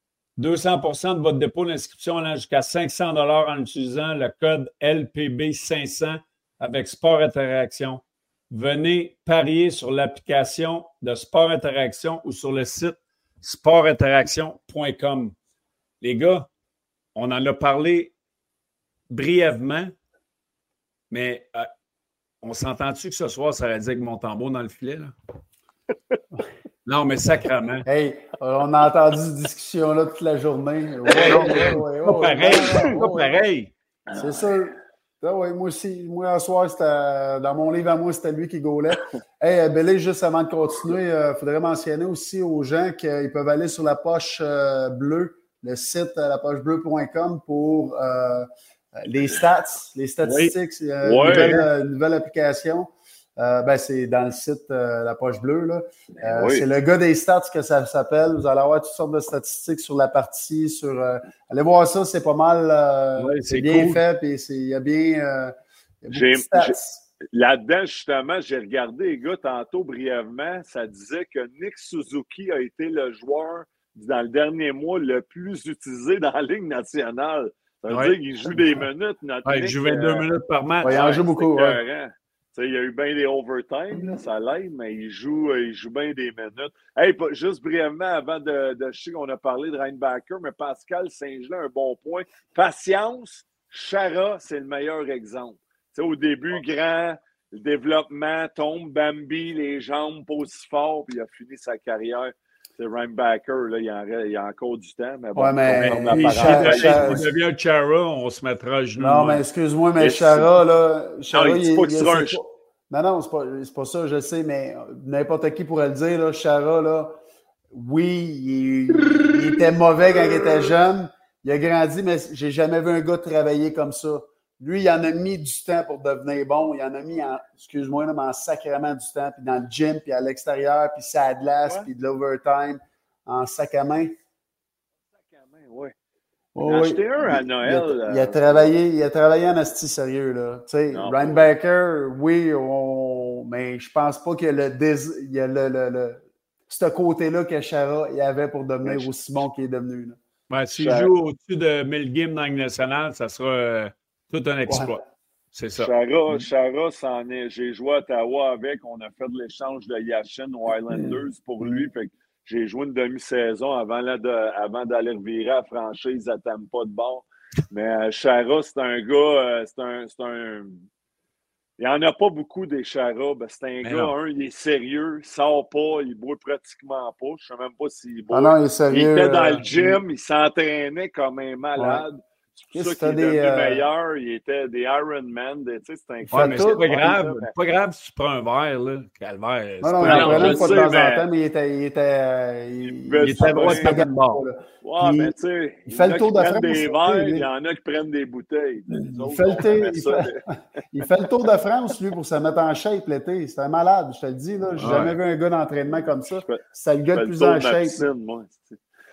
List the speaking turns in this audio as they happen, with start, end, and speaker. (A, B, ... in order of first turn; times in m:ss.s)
0:00.4-0:15.3 A
0:16.0-0:16.5 A
0:17.1-0:18.1 A
0:19.1-0:19.9 A
0:21.1-0:21.7 A
0:22.4-0:25.1 A
0:26.8-0:27.9 A
0:27.8-0:33.4 B
0:31.0-0:31.7 C
0:31.2-0:33.7 A
0:32.5-0:32.9 C
0:34.1-0:34.5 C
0:34.2-1:07.0 B
0:50.2-0:50.5 A
0:51.0-0:51.6 C
0:51.2-0:51.7 A
0:56.2-0:56.6 C
1:03.2-1:04.0 A
1:06.1-1:20.2 C
1:17.9-1:18.1 A
1:19.4-1:21.0 A
1:20.8-1:21.8 B
1:20.8-1:47.2 C
1:45.4-1:47.2 B
1:45.8-1:49.4 A
1:49.0-1:57.2 B
1:50.0-1:50.5 C
1:51.3-1:52.4 C
1:57.7-2:14.1 B
2:15.1-2:15.9 C
2:16.5-2:30.2 B
2:16.6-2:18.8 C
2:20.9-2:21.4 C
2:28.8-2:29.1 C
2:30.5-2:35.0 A
2:30.8-2:31.1 C
2:34.7-2:34.9 B
2:35.5-2:35.9 A
2:35.8-2:50.8 C
2:41.0-2:41.7 B
2:51.8-3:07.5 C
2:53.8-2:54.1 A
2:58.3-3:00.0 B
3:01.8-3:02.0 B
3:02.7-3:03.8 B
3:06.3-3:06.8 B
3:06.3-3:10.9 A
3:09.8-3:15.3 B
3:10.0-3:11.3 C
3:12.8-3:14.0 C
3:13.2-3:14.4 A
3:14.8-3:20.4 C
3:15.9-3:17.4 B
3:19.2-3:28.1 B
3:24.8-3:25.2 A
3:25.9-3:28.8 C